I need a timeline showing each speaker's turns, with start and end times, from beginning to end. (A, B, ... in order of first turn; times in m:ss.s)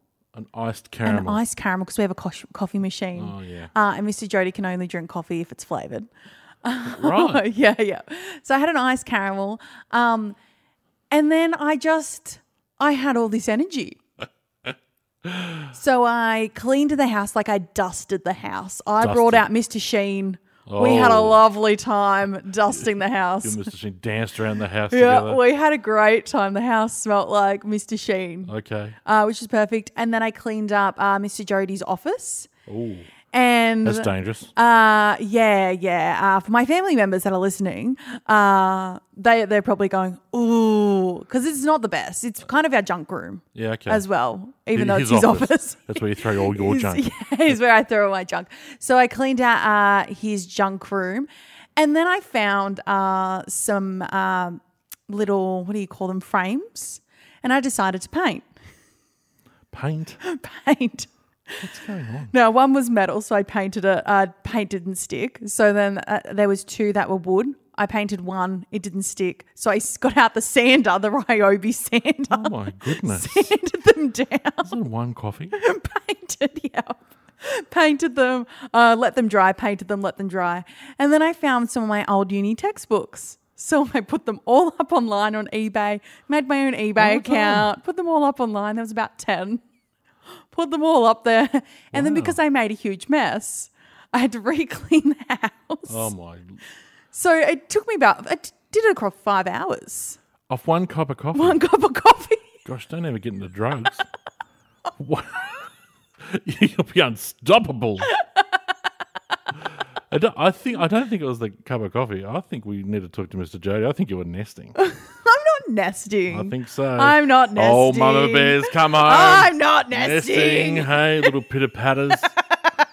0:00.4-0:01.4 A
0:01.1-0:06.1 B
0:03.2-0:03.7 A
0:06.6-0:10.4 B
0:06.9-0:07.4 A
0:11.1-0:14.0 B
0:15.3-0:15.7 A
0:15.7-0:23.6 B
0:19.0-0:19.4 A
0:20.7-0:21.4 A
0:23.4-0:25.4 A
0:24.9-0:28.5 B
0:28.5-0:29.0 A
0:29.0-0:32.5 B
0:32.7-0:33.1 A
0:33.3-0:58.4 B
0:33.8-0:34.5 A
0:43.5-0:44.0 A
0:44.7-0:47.1 A
0:59.7-1:00.2 A
1:00.2-1:01.1 B
1:01.6-1:02.3 A
1:02.3-1:14.7 B
1:12.3-1:13.5 A
1:14.6-1:15.5 A
1:15.6-1:29.6 B
1:27.0-1:27.7 A
1:30.5-1:36.1 B
1:31.9-1:32.4 A
1:35.9-1:36.6 A
1:37.1-1:40.2 B
1:40.5-1:41.6 A
1:41.3-1:42.4 B
1:42.6-1:44.1 A
1:45.0-1:45.5 A
1:46.3-1:48.1 A
1:50.1-1:54.8 A
1:54.8-2:00.9 B
1:56.3-2:02.3 A